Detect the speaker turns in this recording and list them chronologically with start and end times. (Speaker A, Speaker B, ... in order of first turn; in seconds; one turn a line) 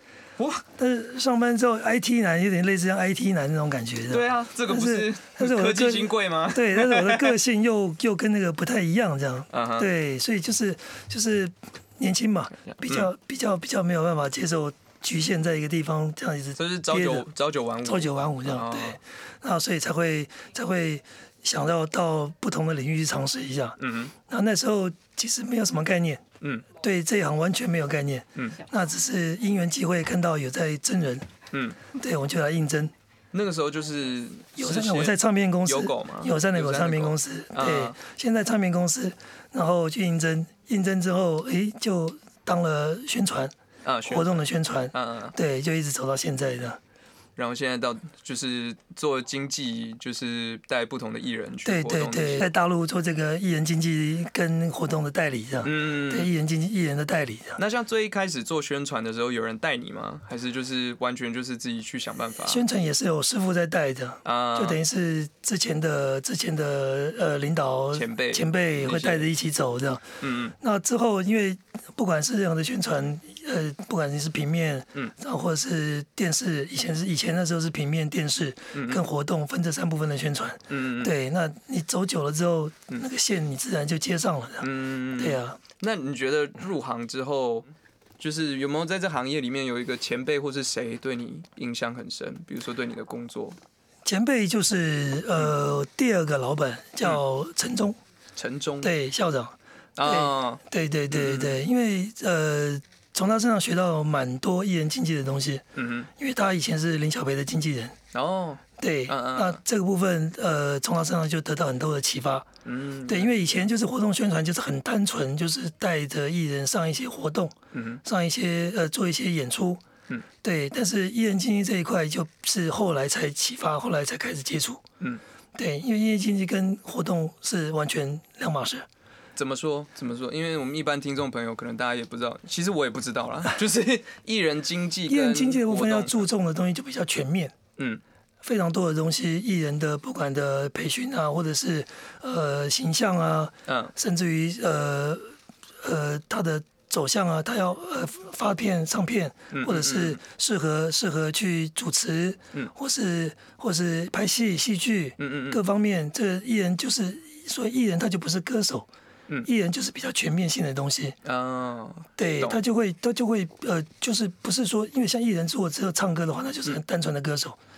Speaker A: 0.4-0.6
Speaker B: 0.8-17.3
Speaker A: 4.1-7.4
Speaker A: 9.5-9.9
Speaker A: 12.7-13.1
Speaker A: 16.6-19.0
Speaker B: 17.8-31.3
Speaker A: 23.8-24.1
Speaker A: 26.4-26.6
Speaker A: 28.3-28.6
Speaker A: 31.5-31.8
Speaker B: 31.9-32.9
Speaker A: 33.3-38.0
Speaker B: 34.5-43.5
Speaker A: 43.8-44.4
Speaker B: 44.1-46.8
Speaker A: 44.9-45.4
Speaker A: 47.4-52.5
Speaker B: 51.6-57.6
Speaker A: 55.6-56.3
Speaker A: 57.6-62.6
Speaker B: 62.4-85.6
Speaker A: 64.2-64.8
Speaker A: 67.9-69.3
Speaker A: 70.2-70.5
Speaker A: 78.7-79.0
Speaker A: 80.7-81.1
Speaker A: 84.6-87.7
Speaker A: 88.2-93.6
Speaker B: 94.0-98.0
Speaker A: 98.3-98.9
Speaker B: 98.8-108.0
Speaker A: 100.0-101.6
Speaker A: 105.8-106.1
Speaker A: 108.1-109.6
Speaker B: 108.8-112.5
Speaker A: 112.6-113.4
Speaker B: 113.1-119.8
Speaker A: 117.7-118.0
Speaker B: 120.4-124.8
Speaker B: 125.5-128.9
Speaker A: 129.3-136.2
Speaker B: 135.1-137.5
Speaker A: 137.8-138.0
Speaker B: 138.4-158.9
Speaker A: 143.7-143.9
Speaker A: 149.5-150.2
Speaker A: 155.2-155.6
Speaker B: 159.4-161.2
Speaker A: 161.2-162.6
Speaker B: 162.2-167.6